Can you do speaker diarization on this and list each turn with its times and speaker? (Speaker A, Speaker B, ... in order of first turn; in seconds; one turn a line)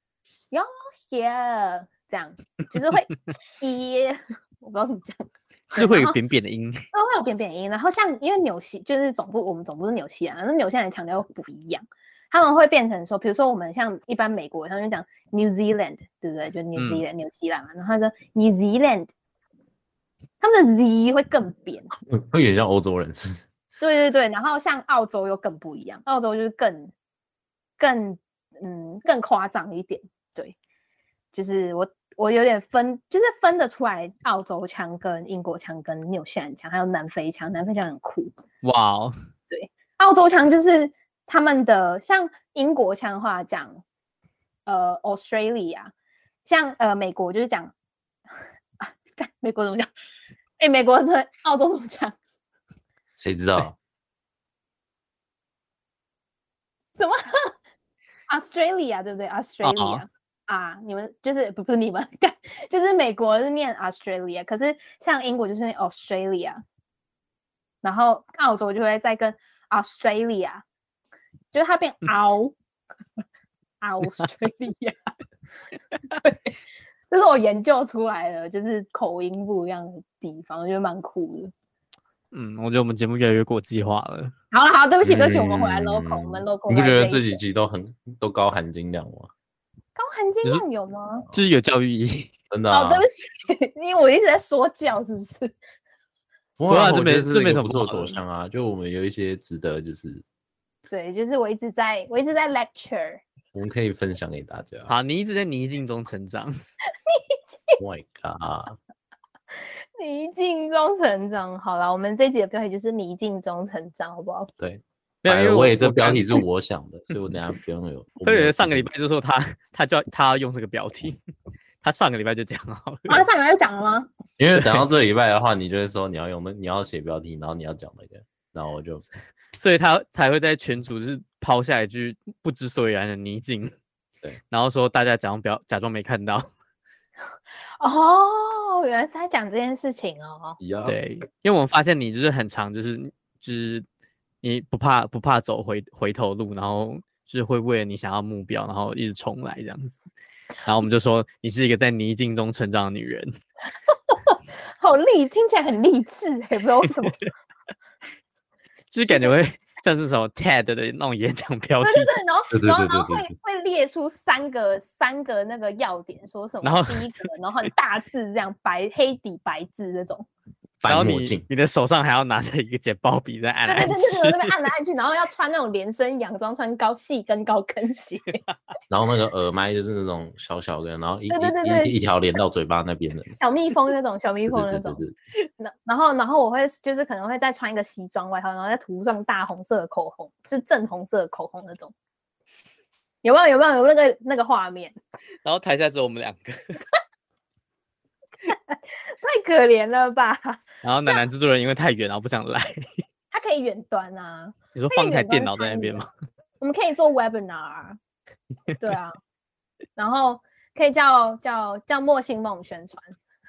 Speaker A: 0.5-6.2
Speaker B: 5.7-6.8
Speaker A: 6.9-19.1
Speaker B: 16.8-17.0
Speaker A: 20.4-21.9
Speaker C: 22.1-23.4
Speaker A: 23.8-26.9
Speaker A: 27.8-30.6
Speaker A: 31.3-38.3
Speaker B: 38.6-39.1
Speaker A: 39.5-43.8
Speaker A: 44.7-45.9
Speaker A: 46.5-47.7
Speaker A: 48.8-49.9
Speaker A: 50.6-52.2
Speaker C: 53.2-53.8
Speaker A: 57.0-57.5
Speaker A: 58.3-66.6
Speaker B: 59.6-60.0
Speaker A: 67.8-70.6
Speaker A: 71.5-72.5
Speaker A: 73.8-75.0
Speaker A: 76.1-76.6
Speaker A: 77.1-81.5
Speaker B: 82.3-84.3
Speaker A: 84.5-87.4
Speaker C: 85.0-89.3
Speaker A: 90.0-91.3
Speaker B: 91.3-92.3
Speaker C: 92.5-93.1
Speaker A: 92.7-95.5
Speaker C: 96.6-100.2
Speaker B: 96.7-98.2
Speaker A: 100.9-103.2
Speaker C: 103.5-104.9
Speaker B: 104.9-106.5
Speaker A: 107.1-107.8
Speaker C: 107.8-108.8
Speaker A: 110.0-114.5
Speaker C: 114.6-118.9
Speaker B: 115.2-116.4
Speaker B: 118.2-121.2
Speaker B: 121.8-123.2
Speaker A: 123.1-124.1
Speaker C: 124.4-129.0
Speaker B: 124.6-124.8
Speaker B: 129.6-133.7
Speaker B: 134.5-136.5
Speaker A: 137.8-140.6
Speaker C: 140.6-141.0
Speaker B: 140.9-143.8
Speaker B: 144.4-150.0
Speaker B: 150.6-153.3
Speaker A: 153.9-157.2
Speaker B: 158.9-162.1
Speaker A: 159.1-159.4
Speaker A: 161.8-170.3
Speaker C: 162.5-163.3
Speaker B: 166.6-167.1
Speaker C: 170.8-171.4
Speaker B: 170.9-174.5
Speaker A: 173.7-178.4
Speaker C: 178.9-183.4
Speaker A: 181.3-182.1
Speaker A: 183.4-185.0
Speaker C: 184.5-185.2
Speaker A: 185.6-191.9
Speaker A: 193.2-194.9
Speaker B: 195.4-196.8
Speaker A: 198.5-201.2
Speaker B: 200.8-203.0
Speaker A: 203.3-206.1
Speaker B: 204.8-206.1
Speaker A: 206.6-208.0
Speaker A: 208.8-209.2
Speaker A: 210.0-213.2